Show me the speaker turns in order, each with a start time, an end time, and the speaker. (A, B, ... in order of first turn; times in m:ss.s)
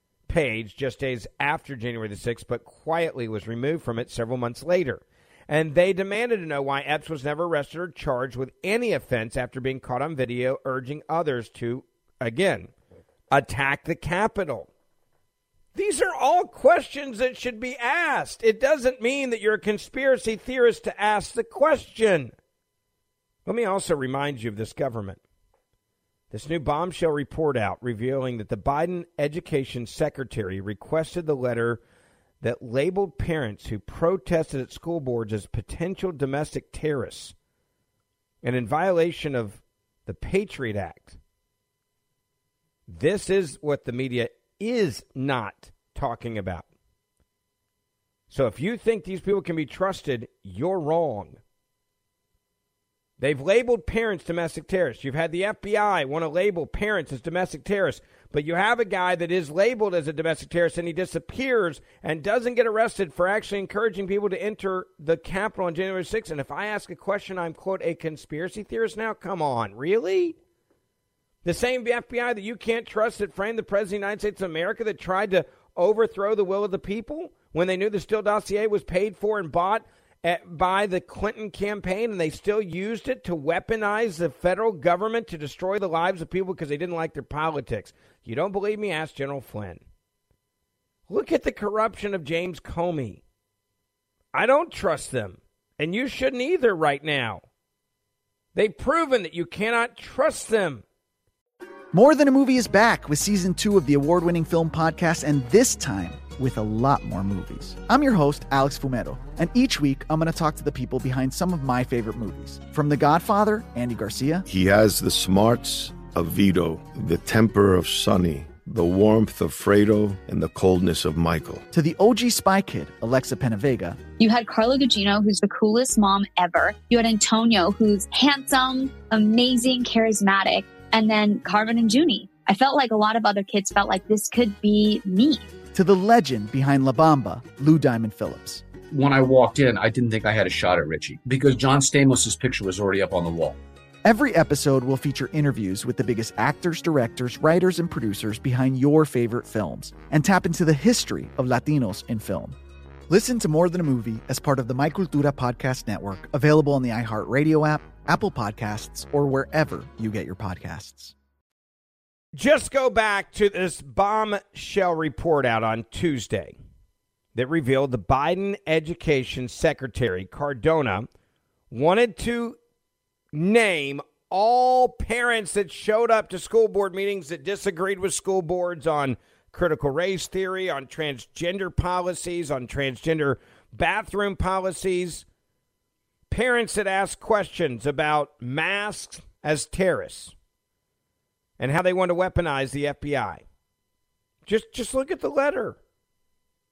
0:00.3-0:12.7 A
0:13.3-0:14.7 A
0:15.7-0:22.3 A
0:23.4-0:25.2 A
0:26.3-0:31.8 A
0:32.4-0:37.3 A
0:38.4-0:41.2 A
0:42.9-0:46.7 A
0:48.3-0:51.4 A
0:53.2-1:10.4 A
1:11.4-1:29.8 A
1:31.1-1:33.2 A
1:34.3-1:37.4 A
1:38.5-1:40.8 A
1:41.9-1:54.4 B
1:54.5-2:01.6 C
2:01.7-2:04.0 B
2:04.2-2:15.5 D
2:15.7-2:18.6 B
2:18.9-2:23.6 E
2:24.0-2:32.6 B
2:33.1-2:41.1 B
2:42.3-2:46.6 A
2:47.3-2:51.1 A
2:51.7-2:52.6 A
2:53.3-3:05.2 A
3:06.3-3:10.3 A
3:11.6-3:13.4 A
3:14.4-3:15.8 A